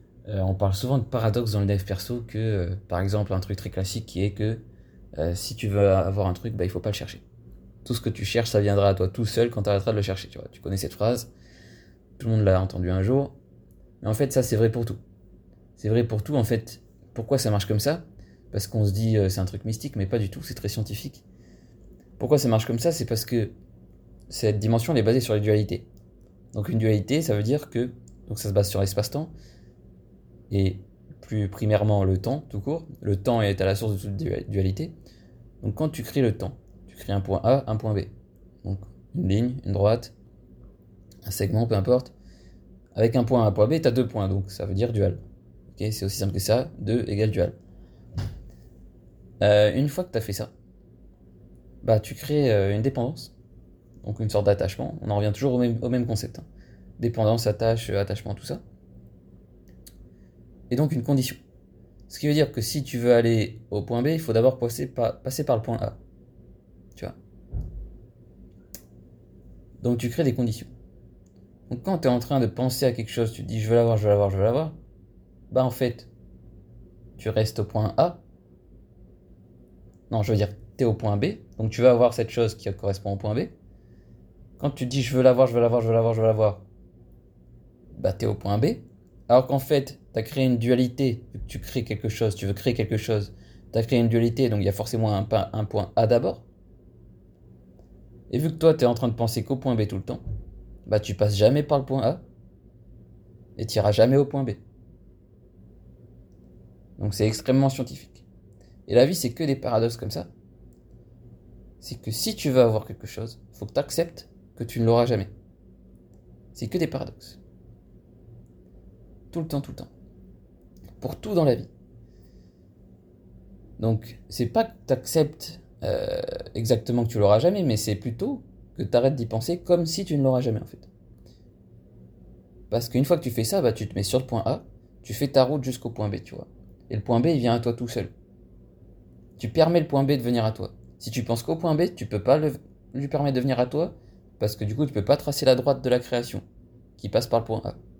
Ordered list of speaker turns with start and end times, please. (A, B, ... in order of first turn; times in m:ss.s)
0:00.3-0:04.6 A
0:05.2-0:07.2 A
0:07.8-0:11.3 A
0:12.2-0:13.3 A
0:14.0-0:15.0 A
0:15.8-0:21.2 A
0:22.2-0:23.5 A
0:24.3-0:25.8 A
0:26.5-0:29.3 A
0:30.5-0:34.9 A
0:35.6-0:38.1 A
0:38.6-0:40.1 A
0:41.2-0:42.1 A
0:42.9-0:45.2 A
0:45.7-0:47.6 A
0:49.4-0:50.5 A
0:51.8-0:53.3 A
0:54.0-0:56.4 A
0:57.0-0:58.6 A
1:00.7-1:01.4 A
1:02.1-1:06.0 A
1:09.8-1:10.7 A
1:11.7-1:14.8 A
1:15.5-1:16.1 A
1:17.2-1:18.2 A
1:20.1-1:23.5 A
1:24.6-1:26.6 A
1:28.0-1:36.4 A
1:38.3-1:40.2 A
1:40.8-1:42.2 A
1:43.6-1:44.6 A
1:47.0-1:48.2 A
1:48.9-1:50.3 A
1:51.8-1:55.3 A
1:56.5-1:57.4 A
1:59.3-1:59.9 A
2:01.0-2:01.7 A
2:03.8-2:10.9 A
2:12.7-2:18.1 A
2:19.4-2:26.4 A
2:27.0-2:27.8 A